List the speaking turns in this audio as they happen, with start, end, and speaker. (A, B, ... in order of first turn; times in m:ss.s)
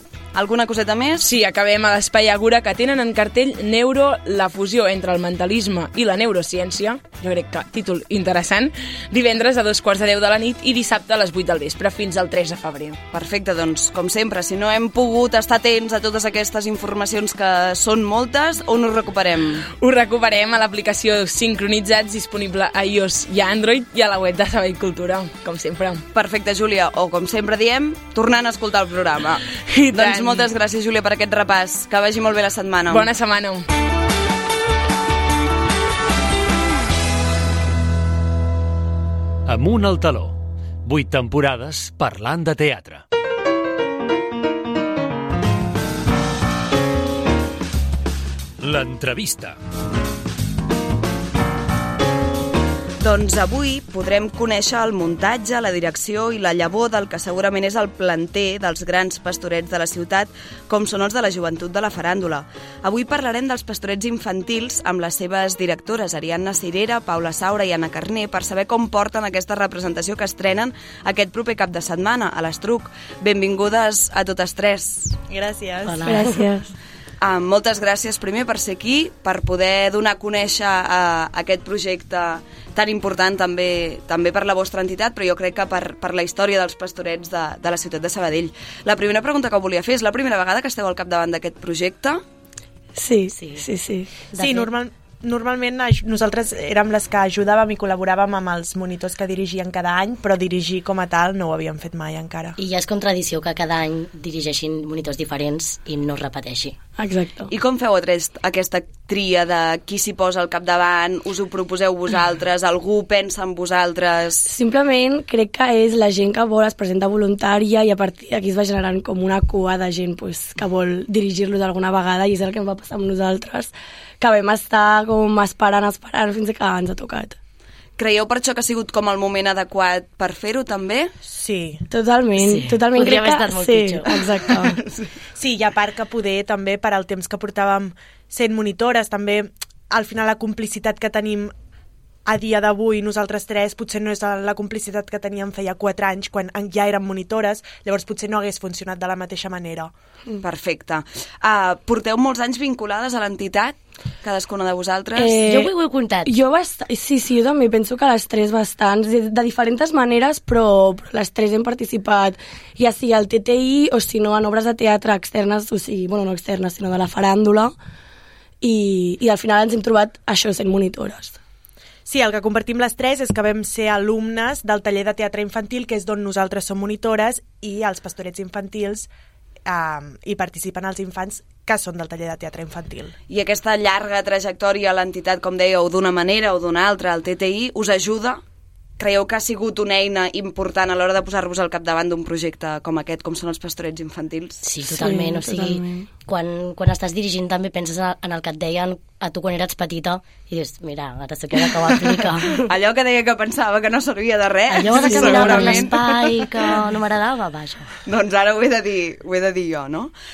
0:00.3-0:01.3 A
0:01.2-0:13.0 B
0:13.1-0:19.7 A
0:19.7-0:26.0 B
0:26.1-0:33.1 A
0:29.7-0:30.5 B
0:32.9-0:33.6 B
0:39.5-0:43.0 C
0:48.6-0:49.6 C
0:53.0-1:15.2 A
1:15.3-1:16.2 D
1:15.8-1:16.4 E
1:16.1-1:16.7 F
1:17.2-1:32.2 A
1:33.0-1:34.1 F
1:33.4-1:33.7 E
1:34.3-1:34.7 E
1:34.4-1:42.6 D
1:42.6-1:46.8 E
1:47.0-1:47.5 F
1:47.5-1:54.5 A
1:54.5-2:07.4 F
2:08.0-2:11.1 A
2:11.3-2:11.8 D
2:11.9-2:14.8 F
2:12.4-2:14.7 E
2:15.4-2:21.5 D
2:22.3-2:29.9 D
2:30.4-2:35.4 A
2:35.2-2:35.7 F
2:35.4-2:36.3 E
2:36.2-2:47.8 F
2:48.6-2:51.4 F
2:52.1-2:59.1 D
2:59.7-3:03.2 D
3:03.3-3:08.4 A
3:09.0-3:14.6 A
3:14.6-3:22.6 E
3:14.9-3:16.1 F
3:22.6-3:26.5 A
3:24.7-3:27.9 E
3:24.9-3:25.9 F
3:28.0-3:30.1 A